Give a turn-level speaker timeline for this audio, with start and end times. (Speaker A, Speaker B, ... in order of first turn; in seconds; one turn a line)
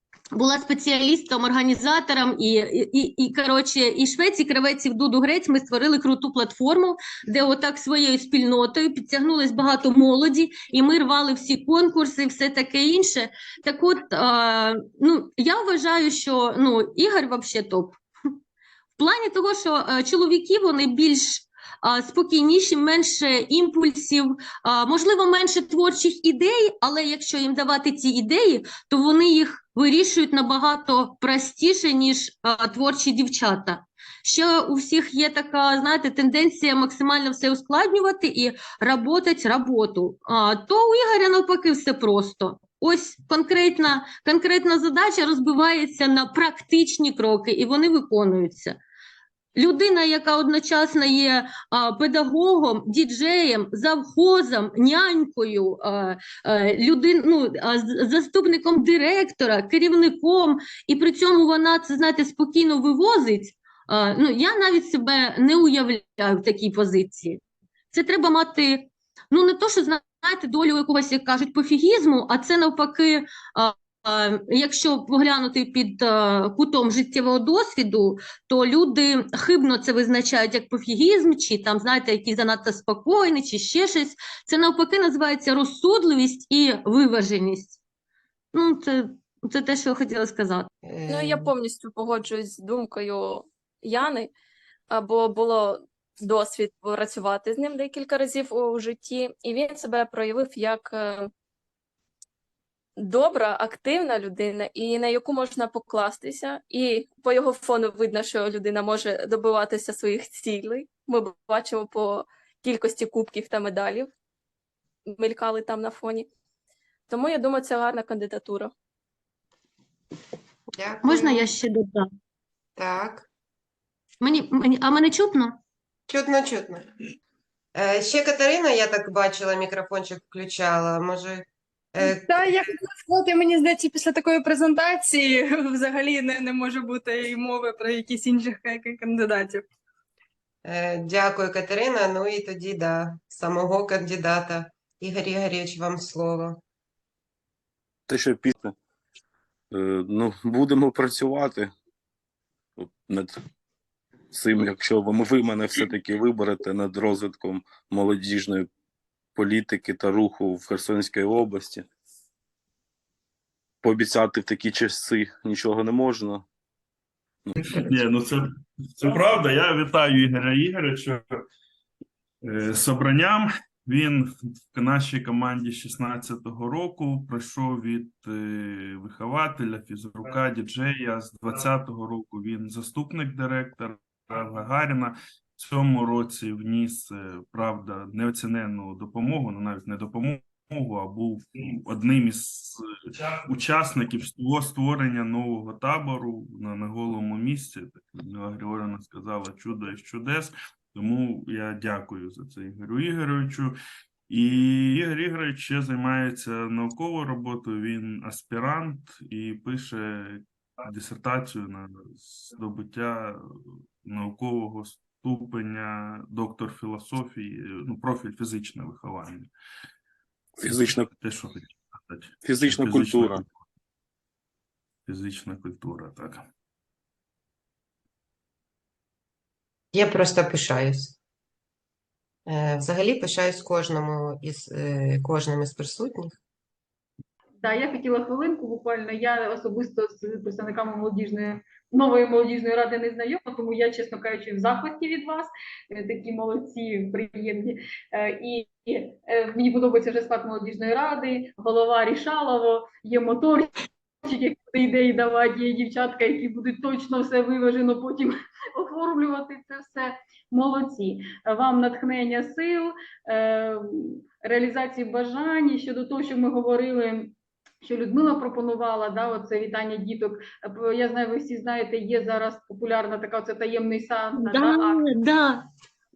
Speaker A: 0.3-18.0
Speaker A: 19.0-48.8
Speaker A: 49.5-67.4
Speaker A: 67.9-87.8
Speaker A: 88.5-90.7
Speaker B: 90.8-91.5
Speaker C: 91.1-94.3
Speaker C: 94.9-101.3
Speaker C: 103.0-114.1
Speaker C: 115.1-116.3
Speaker C: 117.1-118.7
Speaker B: 120.8-121.5
Speaker A: 121.0-122.1
Speaker B: 122.8-123.3
Speaker A: 124.2-125.6
Speaker B: 126.1-126.8
Speaker B: 127.7-132.5
Speaker D: 132.0-139.7
Speaker B: 140.6-146.6
Speaker E: 148.1-148.8
Speaker E: 149.7-151.7
Speaker E: 152.8-153.4
Speaker E: 154.3-158.7
Speaker E: 159.3-161.9
Speaker E: 163.8-166.4
Speaker E: 167.4-168.0
Speaker F: 167.6-171.2
Speaker F: 172.4-203.8
Speaker F: 204.3-213.4
Speaker F: 214.0-219.5
Speaker E: 220.6-221.1
Speaker F: 220.6-223.5
Speaker E: 222.4-223.4
Speaker F: 225.1-226.5
Speaker B: 229.9-231.2
Speaker B: 232.5-236.4
Speaker G: 237.6-253.7
Speaker G: 254.2-275.0
Speaker A: 274.4-275.6